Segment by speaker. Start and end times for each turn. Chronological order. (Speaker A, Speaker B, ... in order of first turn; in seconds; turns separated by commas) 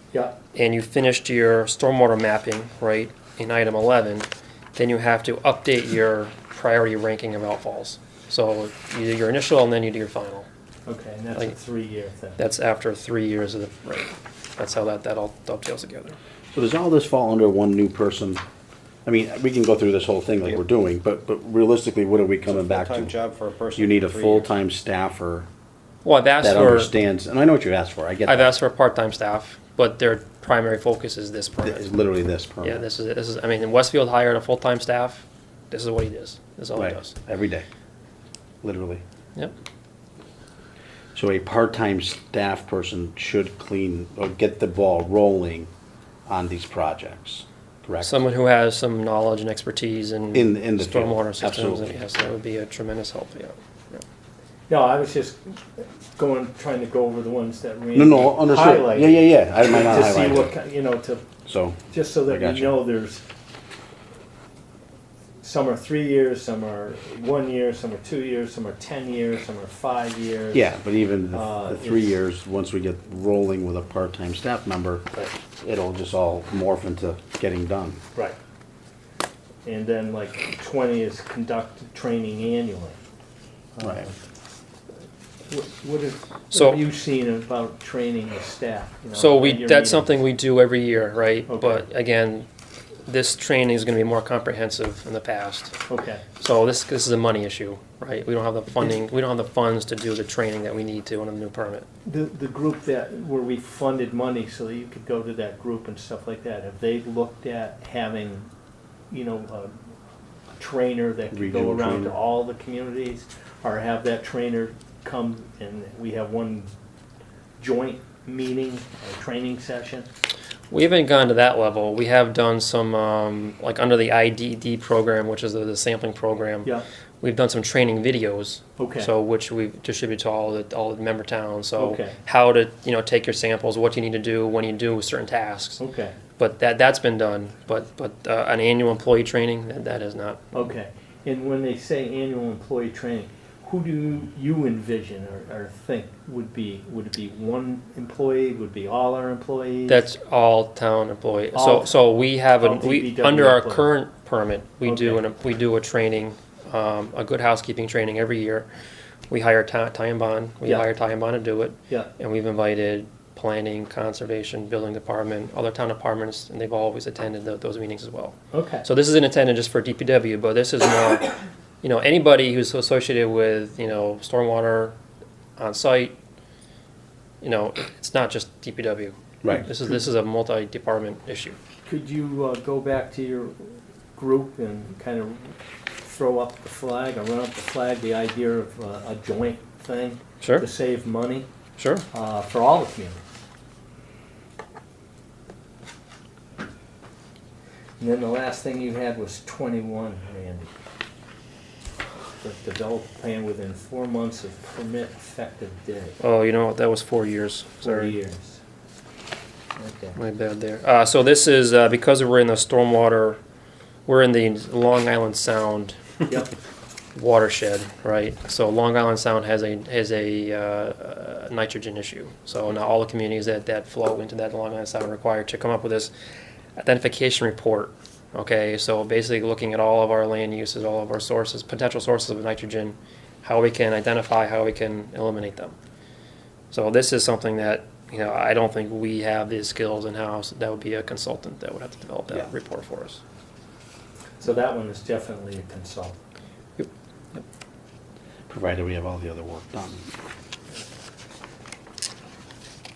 Speaker A: 0.5-10.5, Speaker B: 10.9-12.4, Speaker A: 12.4-16.2, Speaker C: 16.5-18.4, Speaker C: 19.0-23.1, Speaker D: 22.4-24.5, Speaker C: 23.8-25.5, Speaker A: 26.1-26.9, Speaker C: 26.4-28.5, Speaker A: 28.3-31.9, Speaker C: 31.6-32.8, Speaker A: 32.6-37.1, Speaker C: 36.8-37.7, Speaker C: 38.6-39.0, Speaker C: 41.1-45.7, Speaker C: 46.3-48.2, Speaker A: 48.0-54.0, Speaker C: 50.3-51.9, Speaker B: 54.7-61.2, Speaker C: 57.9-60.5, Speaker C: 61.5-62.8, Speaker B: 61.9-63.2, Speaker B: 65.4-70.7, Speaker C: 70.5-75.1, Speaker B: 71.3-72.2, Speaker C: 75.6-78.0, Speaker B: 79.6-83.0, Speaker B: 83.8-84.1, Speaker B: 85.5-90.1, Speaker A: 86.5-86.8, Speaker A: 89.1-92.5, Speaker B: 91.5-91.8, Speaker A: 93.1-95.8, Speaker B: 95.9-96.2, Speaker A: 96.4-101.9, Speaker B: 102.0-108.5, Speaker B: 109.1-109.7, Speaker B: 110.6-116.7, Speaker C: 111.3-112.1, Speaker B: 117.6-120.1, Speaker A: 120.7-135.8, Speaker B: 128.8-129.1, Speaker B: 131.8-132.2, Speaker B: 135.8-136.2, Speaker A: 136.4-140.5, Speaker B: 140.5-150.1, Speaker A: 149.9-158.7, Speaker B: 151.5-152.1, Speaker B: 152.6-153.9, Speaker B: 154.8-155.2, Speaker A: 159.3-175.0, Speaker B: 168.5-168.9, Speaker A: 175.6-176.2, Speaker A: 177.4-181.6, Speaker C: 179.4-179.7, Speaker B: 181.9-191.5, Speaker A: 190.4-190.7, Speaker A: 191.8-192.1, Speaker B: 192.1-193.2, Speaker B: 198.0-200.7, Speaker B: 202.4-206.2, Speaker A: 206.2-208.1, Speaker B: 207.8-208.6, Speaker B: 209.8-210.2, Speaker A: 210.2-213.4, Speaker A: 214.1-216.4, Speaker A: 217.2-226.1, Speaker A: 226.8-235.8, Speaker A: 236.7-243.2, Speaker B: 244.4-246.2, Speaker A: 246.8-247.4, Speaker C: 248.5-250.1